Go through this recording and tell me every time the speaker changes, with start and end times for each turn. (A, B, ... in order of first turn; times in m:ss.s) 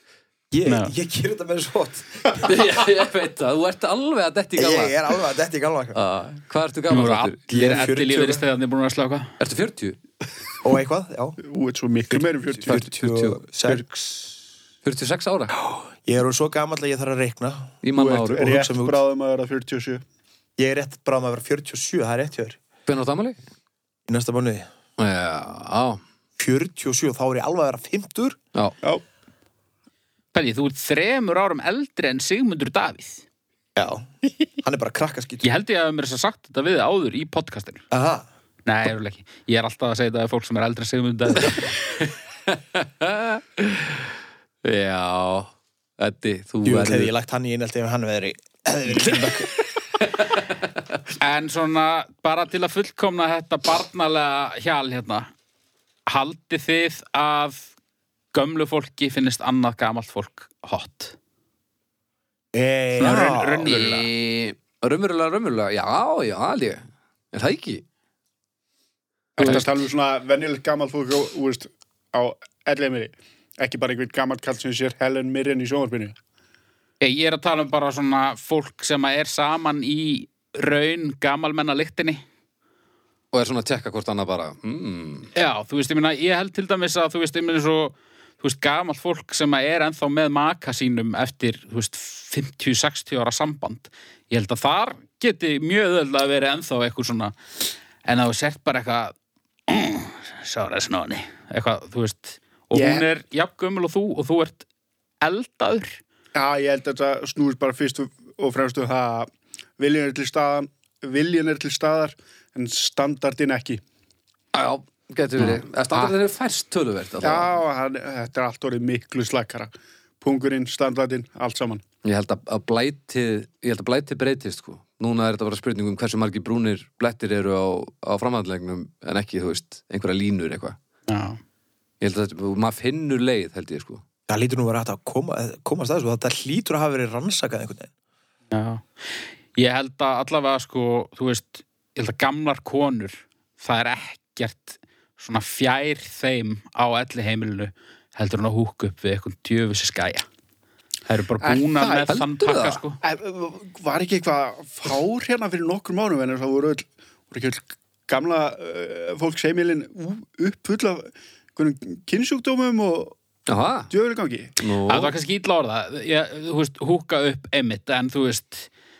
0:00.5-0:02.7 A
0:00.7-0:00.9 B
0:02.4-0:05.0 C
0:04.6-0:06.0 A
0:06.0-0:07.4 C
0:06.9-0:09.3 B
0:07.5-0:08.4 A
0:09.4-0:10.0 C
0:10.6-0:11.4 A
0:11.4-0:12.8 D
0:12.1-0:13.9 A
0:12.7-0:14.2 C
0:14.8-0:15.6 C
0:15.6-0:19.0 A
0:17.8-0:18.5 C
0:18.0-0:20.0 D
0:20.6-0:22.6 A
0:22.9-0:23.4 C
0:24.1-0:24.7 A
0:25.0-0:26.0 C
0:26.4-0:28.4 A
0:30.3-0:33.2 B
0:33.8-0:35.5 A
0:35.4-0:37.8 B
0:37.9-0:38.3 A
0:38.7-0:41.7 B
0:41.4-0:44.1 C
0:44.6-0:47.1 C
0:46.6-0:49.5 A
0:50.0-0:50.4 C
0:51.2-0:55.3 B
0:56.1-0:57.7 B
0:58.3-1:01.2 B
1:02.5-1:03.7 A
1:03.0-1:04.1 B
1:03.7-1:06.8 C
1:07.3-1:07.8 C
1:09.4-1:16.2 D
1:09.4-1:09.7 B
1:17.0-1:22.2 B
1:23.3-1:25.3 C
1:25.4-1:37.4 B
1:38.0-1:39.1 B
1:39.7-1:44.7 B
1:42.7-1:43.1 D
1:45.2-1:46.0 B
1:46.4-1:53.8 D
1:54.5-1:57.5 C
1:55.4-1:56.1 B
1:57.2-2:01.8 D
2:02.0-2:10.8 C
2:11.1-2:11.4 B
2:12.0-2:14.0 C
2:14.3-2:17.9 A
2:18.5-2:30.3 B
2:31.1-2:33.0 B
2:31.4-2:32.1 D
2:32.1-2:32.8 C
2:33.0-2:43.2 D
2:43.5-2:43.9 C
2:43.9-2:44.5 D
2:44.6-2:45.1 C
2:44.9-2:48.7 B